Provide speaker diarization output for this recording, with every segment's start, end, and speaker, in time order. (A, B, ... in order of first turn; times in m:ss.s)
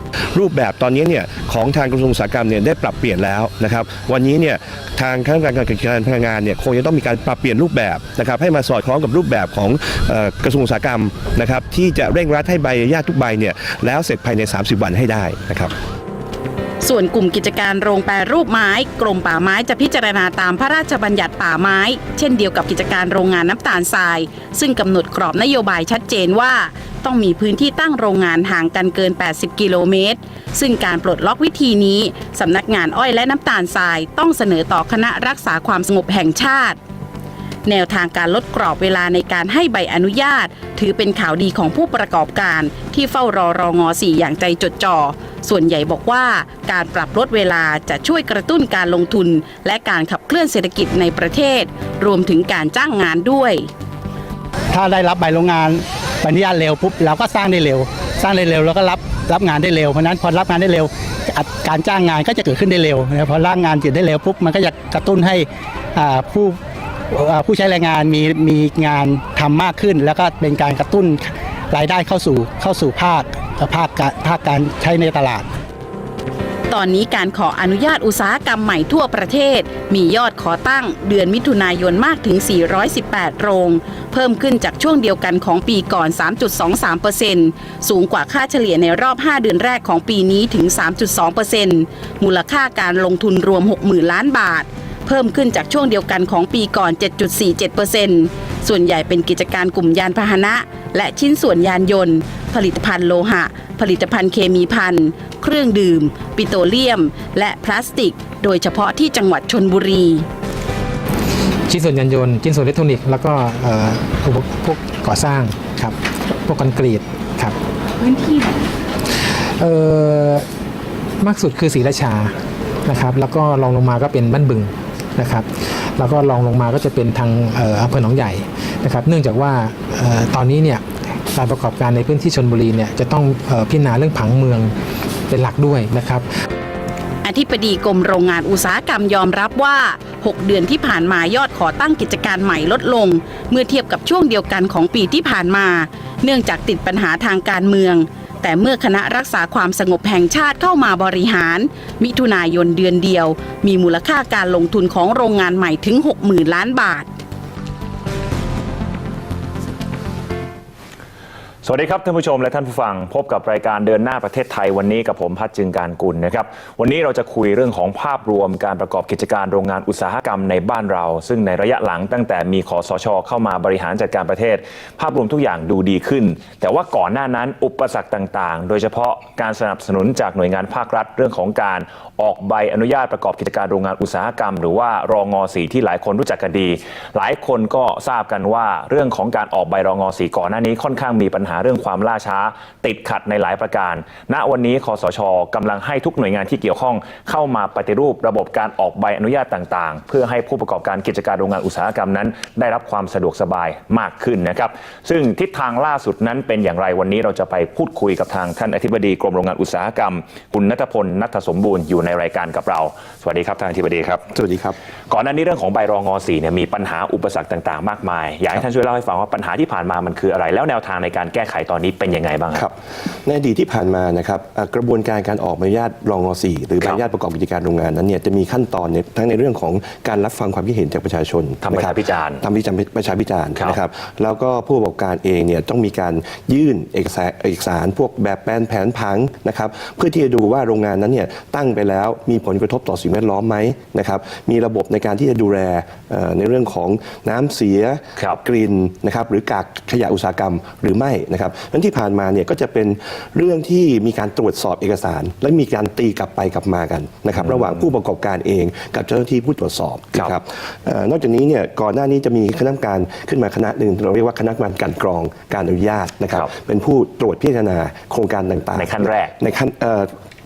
0:00.3-0:15.7 A
0:16.8-0:36.8 B
0:37.6-0:53.7 B
0:54.7-1:06.6 C
1:07.1-1:15.5 C
1:16.7-1:50.2 B
1:51.7-1:58.5 D
1:59.6-2:00.4 D
2:01.2-2:02.3 D
2:02.8-2:14.7 D
2:15.3-2:16.3 D
2:17.2-2:37.1 B
2:41.6-3:34.2 E
3:34.3-3:34.8 A
3:35.1-3:42.6 E
3:42.5-4:30.1 A
3:51.6-3:52.4 E
4:28.8-4:29.3 E